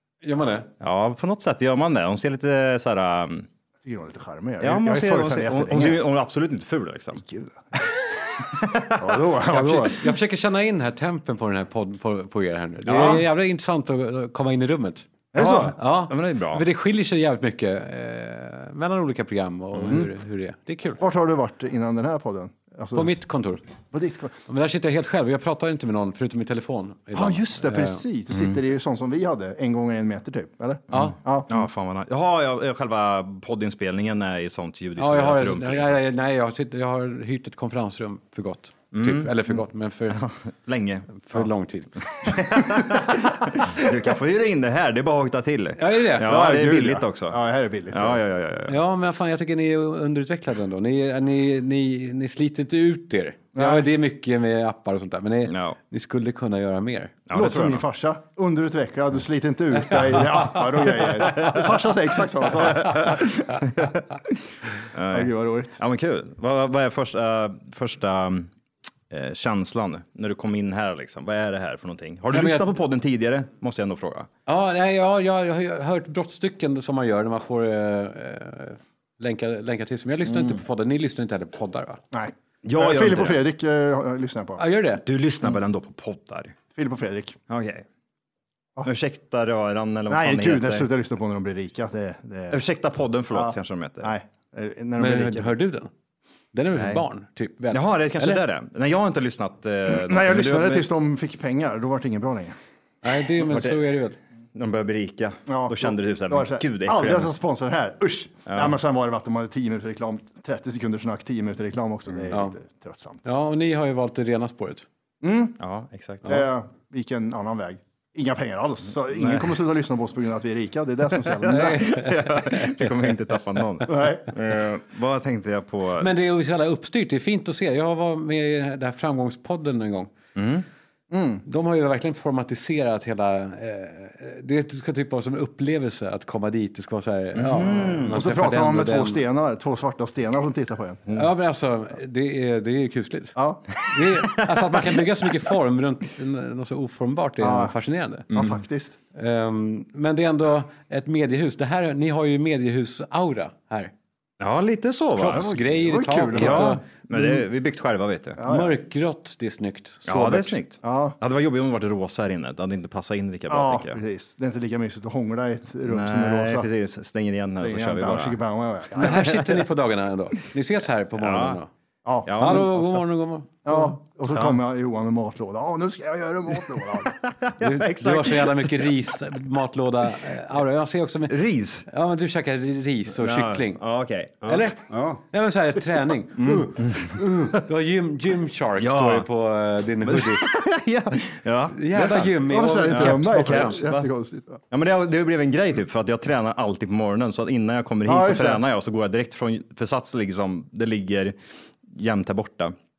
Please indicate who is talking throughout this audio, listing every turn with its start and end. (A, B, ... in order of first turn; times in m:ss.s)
0:00.2-0:00.7 A
0:00.8-0:03.5 B
0:03.8-0:06.0 C
0:04.6-0:07.2 B
0:07.2-0:07.5 C
0:08.6-0:08.8 B
0:09.0-0:10.0 C
0:09.5-0:21.0 A
0:12.9-0:13.2 C
0:15.4-0:16.6 B
0:21.0-0:23.2 C
0:22.9-0:23.6 A
0:23.9-0:24.4 C
0:24.5-0:28.0 A
0:27.1-0:31.5 C
0:31.5-0:36.0 B
0:35.0-0:40.2 A
0:38.9-0:39.4 B
0:40.1-0:41.4 B
0:41.2-0:42.0 A
0:42.2-0:47.4 B
0:45.8-0:46.3 A
0:46.2-0:48.2 C
0:47.9-0:48.8 B
0:48.7-0:57.1 A
0:53.6-0:53.9 C
0:55.5-0:55.8 B
0:57.3-0:57.8 B
0:57.3-1:03.2 C
1:04.9-1:08.5 B
1:05.1-1:05.8 C
1:09.1-1:14.3 B
1:12.3-1:12.7 A
1:14.5-1:22.0 A
1:20.3-1:20.6 B
1:22.1-1:24.6 C
1:22.6-1:23.4 B
1:24.6-1:25.0 A
1:25.0-1:26.6 B
1:26.7-1:27.4 C
1:27.5-1:27.8 B
1:28.8-1:30.9 B
1:30.1-1:32.6 C
1:32.5-1:34.1 B
1:33.3-1:35.5 C
1:35.0-1:35.9 A
1:36.5-1:38.4 A
1:36.7-1:37.0 B
1:37.7-1:40.9 B
1:39.9-1:42.6 C
1:43.0-1:44.2 A
1:43.4-1:43.9 B
1:44.6-1:47.3 B
1:45.5-1:53.2 C
1:48.5-1:48.8 B
1:52.3-1:52.6 A
1:53.2-1:54.9 A
1:55.2-1:55.6 C
1:55.6-1:56.4 B
1:56.3-2:01.8 C
1:59.1-1:59.5 B
2:01.3-2:06.1 B
2:01.5-2:03.1 A
2:03.9-2:04.3 C
2:06.0-2:10.1 A
2:10.4-2:10.6 B
2:11.1-2:11.4 C
2:11.4-2:19.2 A
2:17.4-2:18.2 B
2:18.1-2:21.0 C
2:21.1-2:23.4 A
2:23.4-2:23.6 C
2:23.9-2:28.3 A
2:27.4-2:27.7 C
2:28.3-2:28.6 B
2:28.4-2:29.0 C
2:29.2-2:33.9 A
2:34.4-2:35.5 B
2:35.2-2:36.8 A
2:35.3-2:36.8 C
2:36.3-2:38.4 B
2:38.4-2:38.7 C
2:38.4-2:40.6 A
2:40.0-2:44.0 B
2:40.8-2:41.2 C
2:43.5-2:46.7 C
2:45.8-2:48.4 B
2:47.6-2:49.2 C
2:49.0-2:51.7 A
2:49.0-2:49.3 B
2:51.2-2:51.6 B
2:52.0-2:52.3 C
2:52.2-2:53.0 B
2:52.4-2:53.9 A
2:53.6-2:57.1 C
2:54.3-2:54.6 B
2:57.1-2:58.9 B
2:57.6-3:01.4 A
3:01.3-3:01.9 B
3:01.9-3:03.8 A
3:03.2-3:05.2 B
3:04.5-3:10.5 A
3:06.4-3:06.8 B
3:08.8-3:09.3 B
3:10.0-3:14.1 B
3:11.7-3:13.8 A
3:12.5-3:14.6 C
3:14.7-3:21.4 B
3:18.1-3:18.6 C
3:21.9-3:22.7 B